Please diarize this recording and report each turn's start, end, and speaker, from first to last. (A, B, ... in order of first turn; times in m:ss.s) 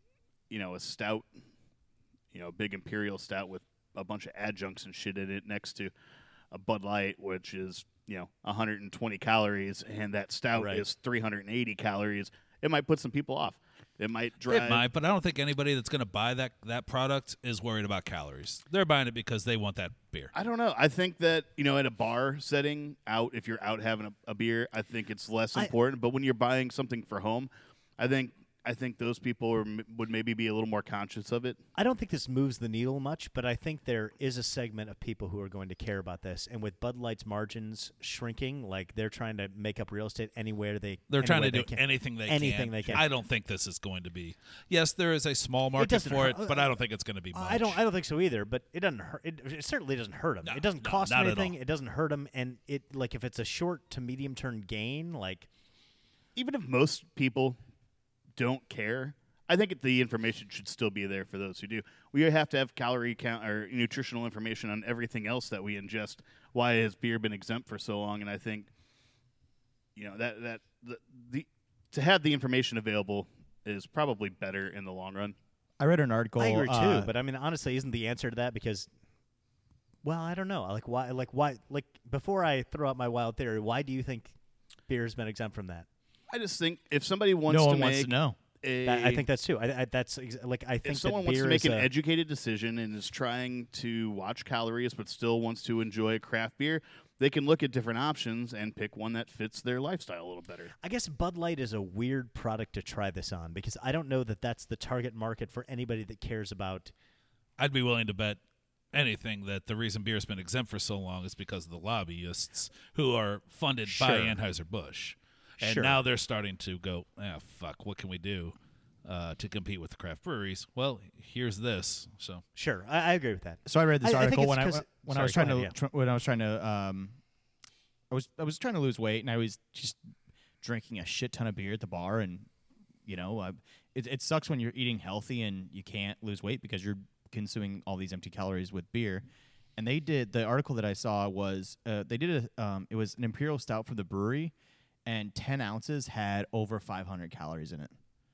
0:00.5-0:01.3 A
0:02.3-0:05.9 A
0:06.5-0:14.8 A
0:10.6-0:10.8 B
0:14.5-0:20.3 C
0:20.3-0:31.6 A
0:31.7-0:43.0 B
0:41.1-0:47.8 C
0:45.8-0:46.7 B
0:47.3-0:55.5 B
0:50.4-0:51.6 C
0:56.4-0:57.6 A
0:58.4-1:08.7 A
1:10.0-1:15.4 A
1:15.8-1:17.1 D
1:16.4-1:18.9 B
1:20.0-1:24.3 B
1:24.9-1:25.8 B
1:26.3-1:28.1 A
1:27.5-1:28.4 D
1:28.6-1:29.2 A
1:28.8-1:31.9 B
1:30.8-1:40.7 A
1:40.8-1:46.9 B
1:47.6-1:48.4 C
1:48.9-2:02.4 C
1:54.0-1:54.3 B
1:55.6-1:56.0 B
2:02.5-2:05.7 B
2:03.6-2:07.2 D
2:08.1-2:10.0 D
2:10.6-2:12.5 D
2:13.0-2:19.2 D
2:19.8-2:24.5 D
2:25.0-2:27.9 D